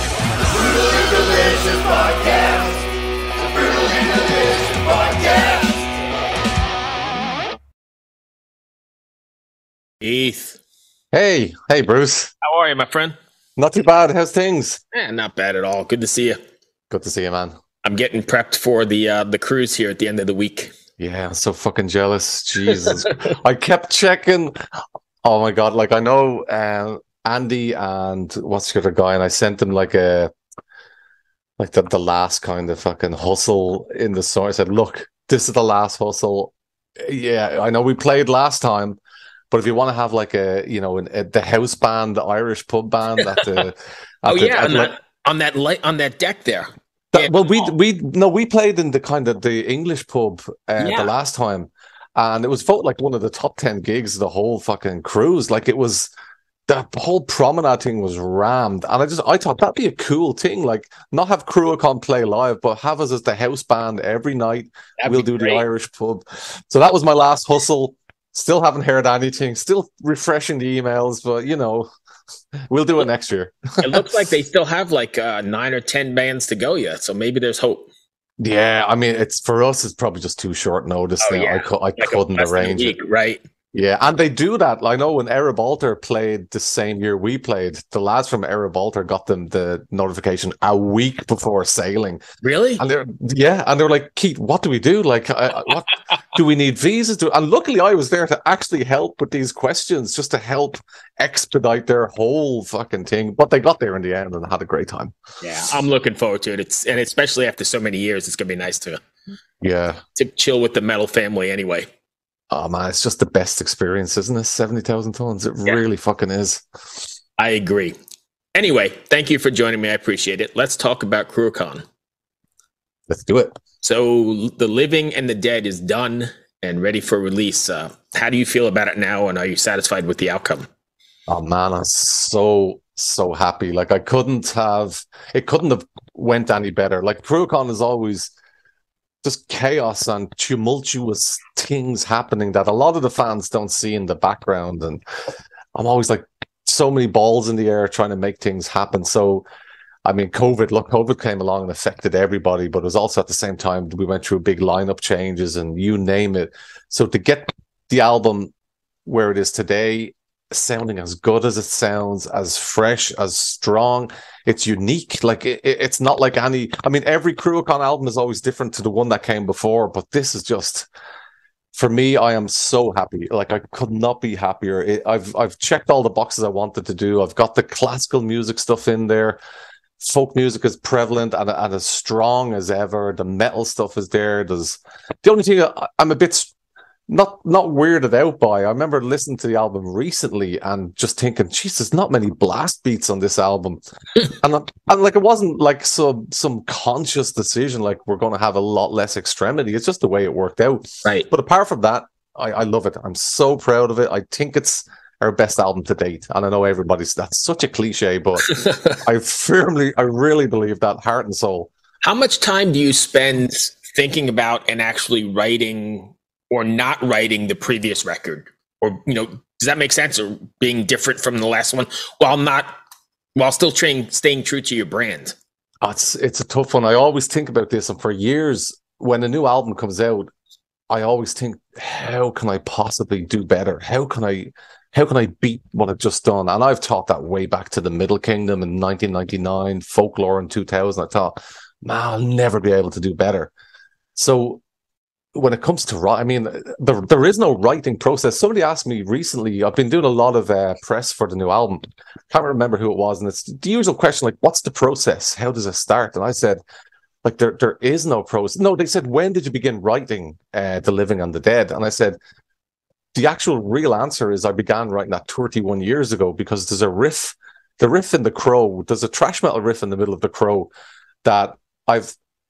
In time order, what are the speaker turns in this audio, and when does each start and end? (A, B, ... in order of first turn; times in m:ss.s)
0:00.4-0:06.0 A
0:10.0-0:10.6 B
0:11.1-0:12.3 C
0:12.4-0:13.2 B
0:13.6-0:14.8 C
0:14.9-0:16.4 B
0:16.9-0:17.6 C
0:17.8-0:20.7 B
0:21.0-0:24.6 C
0:25.2-0:30.3 C
0:31.6-0:39.0 C
0:39.5-0:44.9 C
0:44.3-0:47.7 B
0:47.1-0:56.1 C
0:50.8-0:51.1 B
0:56.7-1:11.9 C
1:05.0-1:05.6 B
1:12.7-1:14.1 C
1:13.8-1:17.9 B
1:18.4-1:23.0 C
1:21.2-1:23.4 B
1:23.7-1:32.2 C
1:32.4-1:32.8 B
1:32.8-1:45.1 C
1:45.4-1:49.0 B
1:49.6-1:50.0 C
1:50.2-1:51.9 B
1:52.5-1:56.6 C
1:57.4-1:58.0 B
1:58.5-2:01.8 B
2:03.1-2:03.5 C
2:03.8-2:10.7 B
2:11.3-2:18.3 C
2:19.2-2:25.0 C
2:25.7-2:29.4 C
2:30.0-2:38.5 C
2:39.0-2:50.9 C
2:51.7-2:59.4 C
3:00.0-3:06.5 C
3:07.1-3:31.7 C
3:32.0-3:42.7 B
3:43.4-3:45.4 B
3:45.8-3:50.3 C
3:50.9-4:03.5 C
4:04.1-4:04.6 C
4:05.3-4:16.6 C
4:17.2-4:22.2 C
4:23.1-4:30.7 C
4:31.2-4:32.1 C